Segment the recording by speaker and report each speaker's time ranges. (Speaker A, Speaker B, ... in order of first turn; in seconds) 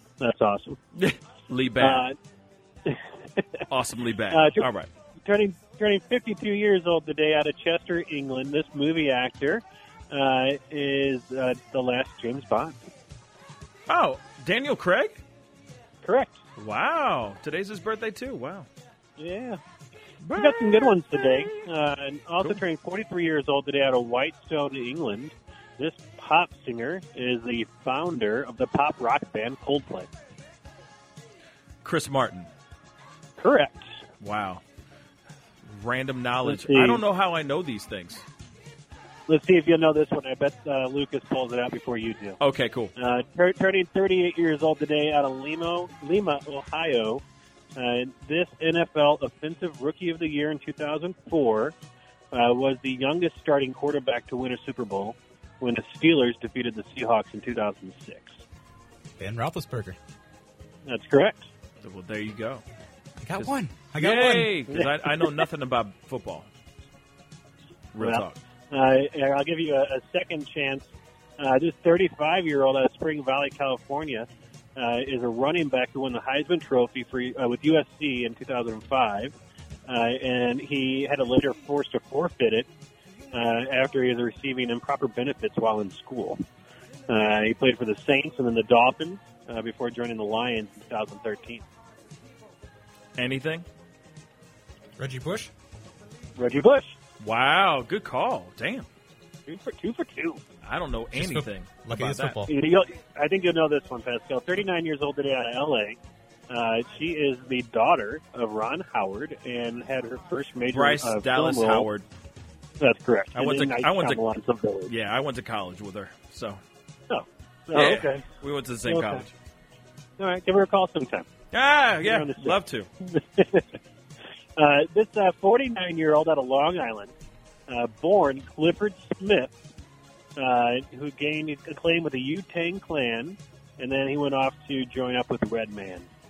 Speaker A: 0.2-0.8, 1.8-2.2, 2.9-3.6, 4.3-4.7, 5.2-12.8, 16.0-16.4, 19.2-19.6, 20.4-30.1, 33.4-33.9, 36.5-37.0, 39.3-42.4, 43.0-47.2, 47.8-51.8, 52.3-58.4, 60.9-61.5, 64.8-65.4, 68.0-79.3, 79.9-82.7, 83.3-86.4, 87.1-91.7, 96.4-97.0, 99.5-100.4, 102.5-106.0, 106.5-111.9, 112.8-114.9, 117.1-118.3, 118.9-119.3, 120.2-121.3, 122.0-123.8, 124.6-127.1, 127.7-129.6, 130.4-136.1
Speaker B: 0.9-2.1, 3.7-4.9, 13.9-15.2, 16.6-18.7, 20.2-21.5, 31.8-32.5, 34.2-34.6, 35.7-38.2, 42.4-42.9, 61.8-62.6, 63.4-66.5, 67.9-68.4, 93.2-93.7, 97.2-98.9, 100.6-102.4, 110.7-112.1, 113.3-114.2, 114.9-116.6, 117.7-119.3, 121.5-122.9
Speaker C: 59.2-60.0, 63.2-64.6, 95.0-95.5, 101.1-102.5